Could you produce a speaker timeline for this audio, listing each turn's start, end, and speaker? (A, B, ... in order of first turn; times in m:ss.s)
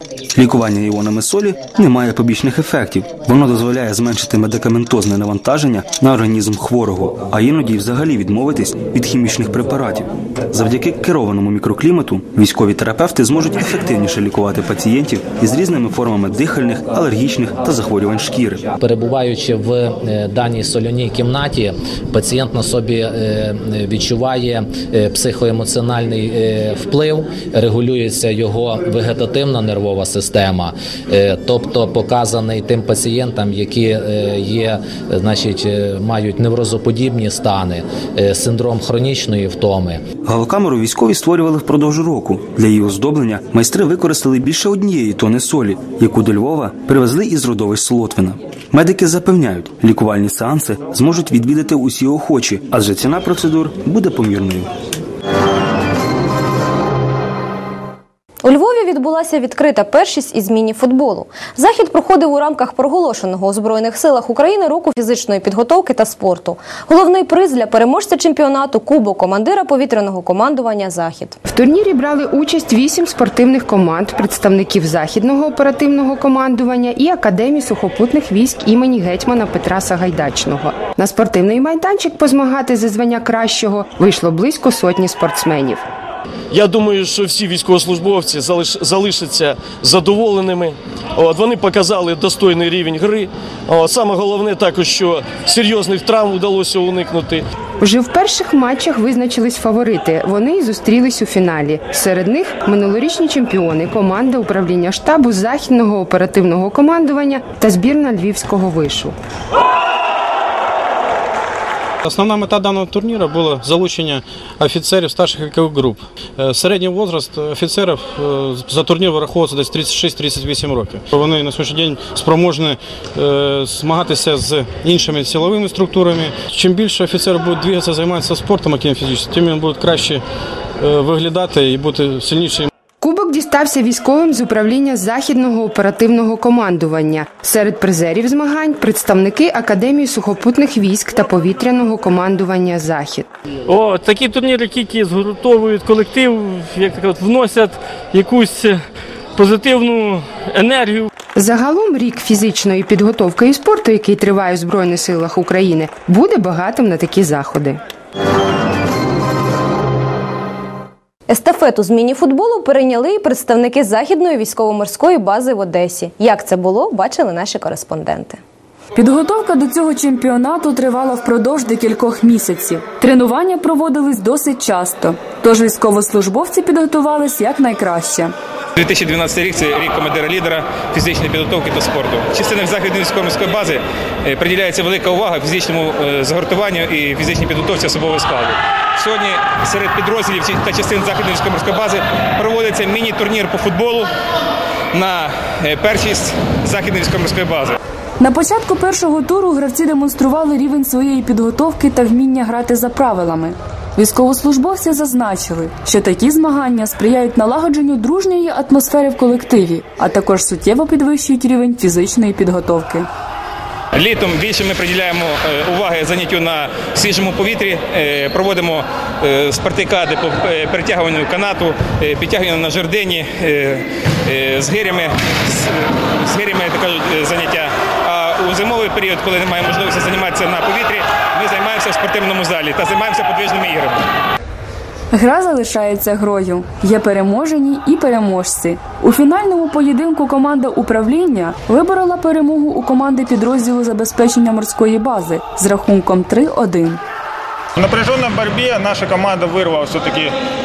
0:00.3-0:18.7 A
0:18.8-0:40.0 B
0:40.2-0:54.7 A
0:58.4-1:11.4 C
1:11.5-1:25.8 D
1:26.5-1:37.4 E
1:37.8-1:49.2 D
1:52.0-2:10.2 F
2:10.8-2:12.7 F
2:13.0-2:23.3 D
2:23.8-2:24.5 G
2:25.0-2:27.7 G
2:28.3-2:28.6 G
2:29.4-2:31.0 G
2:31.4-2:37.8 D
2:41.3-2:48.4 C
2:49.0-2:58.3 H
2:58.8-3:14.1 I
3:14.9-3:17.8 I
3:18.2-3:33.1 H
3:33.9-3:54.0 I
3:55.1-4:07.0 H
4:07.8-4:10.3 J